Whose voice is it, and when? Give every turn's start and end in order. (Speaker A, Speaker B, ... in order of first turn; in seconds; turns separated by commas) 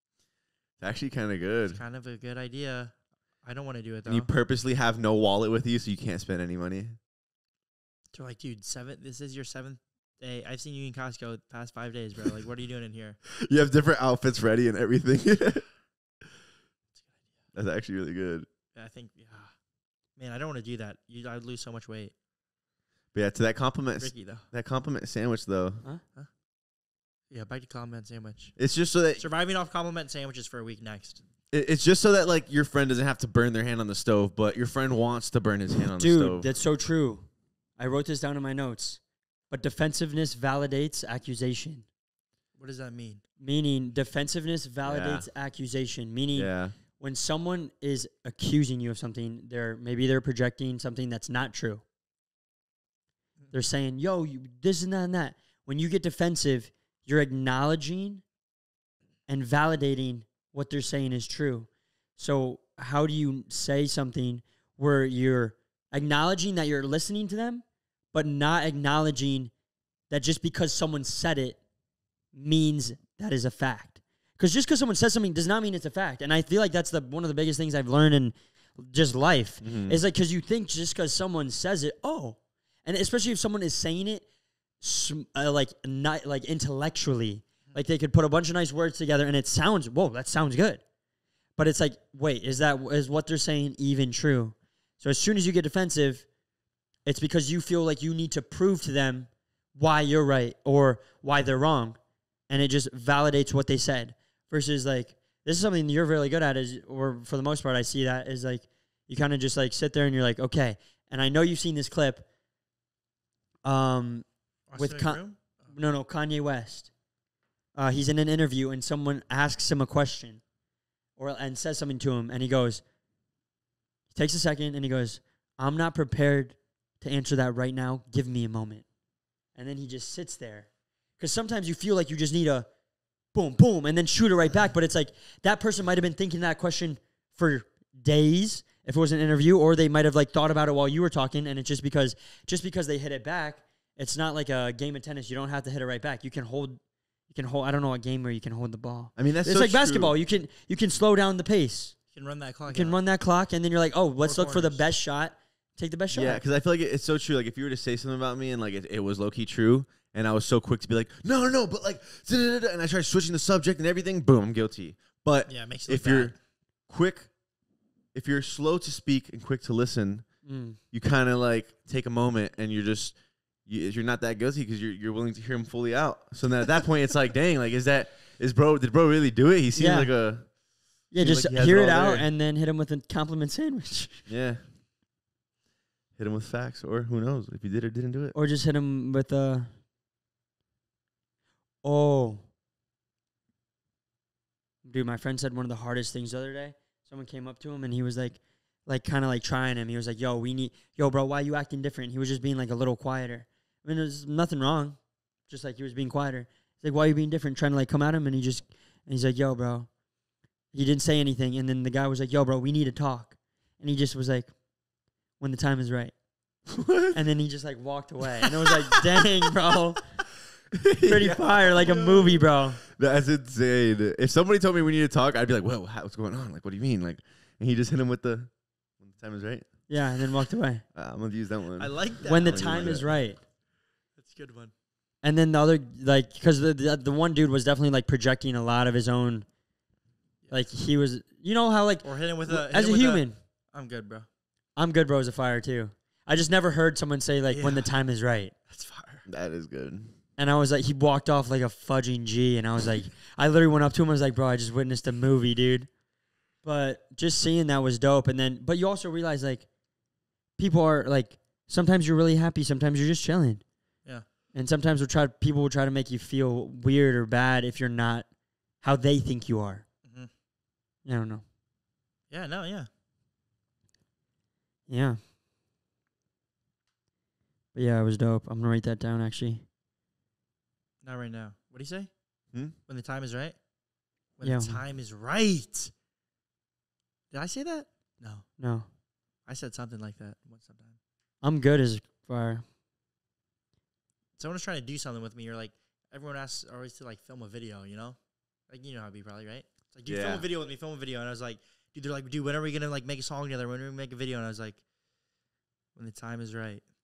Speaker A: 0.8-1.8, Speaker B: 1.7-4.3, Speaker A: 4.1-7.0, Speaker B: 8.1-13.2, Speaker A: 13.4-15.7, Speaker A: 17.5-18.5, Speaker B: 18.8-19.5, Speaker B: 20.2-22.1, Speaker A: 23.1-25.8, Speaker B: 24.0-24.5, Speaker B: 27.3-28.6, Speaker A: 28.6-29.3, Speaker B: 29.2-31.2, Speaker A: 31.5-36.5, Speaker C: 36.0-37.3, Speaker C: 37.8-41.9, Speaker B: 42.6-43.2, Speaker C: 43.4-51.8, Speaker A: 44.9-45.3, Speaker A: 46.3-46.8, Speaker C: 53.5-58.2, Speaker C: 59.3-69.5, Speaker C: 70.1-71.6, Speaker C: 72.3-84.2, Speaker A: 79.6-80.0, Speaker C: 84.8-90.8, Speaker C: 91.6-96.3, Speaker C: 97.1-102.0, Speaker C: 102.5-112.3, Speaker C: 113.6-116.9, Speaker B: 114.7-115.7, Speaker C: 117.8-120.4, Speaker C: 121.2-122.8, Speaker C: 124.1-128.8, Speaker C: 129.6-130.7, Speaker C: 131.2-132.7, Speaker C: 133.3-151.9, Speaker A: 149.2-150.1, Speaker B: 152.1-153.0, Speaker C: 152.7-156.4, Speaker B: 154.2-154.8, Speaker A: 156.1-166.3, Speaker B: 165.5-166.4, Speaker A: 166.9-167.3, Speaker A: 168.1-170.3, Speaker C: 170.4-170.8, Speaker A: 170.9-180.5, Speaker C: 179.7-180.1, Speaker C: 181.1-184.3, Speaker A: 181.2-182.3, Speaker A: 184.3-184.7, Speaker A: 186.2-188.3, Speaker C: 188.3-189.7, Speaker C: 191.8-192.4, Speaker C: 194.8-205.0, Speaker C: 205.5-209.9, Speaker C: 210.7-214.5, Speaker C: 215.4-216.1, Speaker A: 216.7-217.2, Speaker C: 217.1-220.1, Speaker A: 218.4-219.5, Speaker A: 220.8-229.7, Speaker C: 221.0-222.8, Speaker C: 229.9-230.8, Speaker A: 230.9-233.1, Speaker B: 231.8-233.1, Speaker C: 232.2-233.4, Speaker B: 234.2-234.7, Speaker C: 235.2-239.5, Speaker C: 240.5-243.4, Speaker B: 242.0-244.3, Speaker C: 244.8-248.5, Speaker B: 247.5-247.9, Speaker B: 248.7-249.2, Speaker A: 249.3-250.1, Speaker C: 250.4-255.9, Speaker C: 256.6-259.7, Speaker C: 260.6-263.6, Speaker C: 264.5-268.3, Speaker C: 268.8-269.9, Speaker C: 271.1-271.4, Speaker B: 272.3-272.9, Speaker C: 274.9-275.2, Speaker C: 277.7-279.6, Speaker B: 281.0-282.1, Speaker B: 282.9-283.6, Speaker B: 284.4-285.9, Speaker C: 284.4-284.8, Speaker B: 287.3-288.5, Speaker C: 288.6-288.9, Speaker B: 289.5-291.0, Speaker C: 291.4-292.6, Speaker B: 294.4-298.2, Speaker B: 298.7-304.8, Speaker A: 300.1-300.4, Speaker B: 305.9-306.9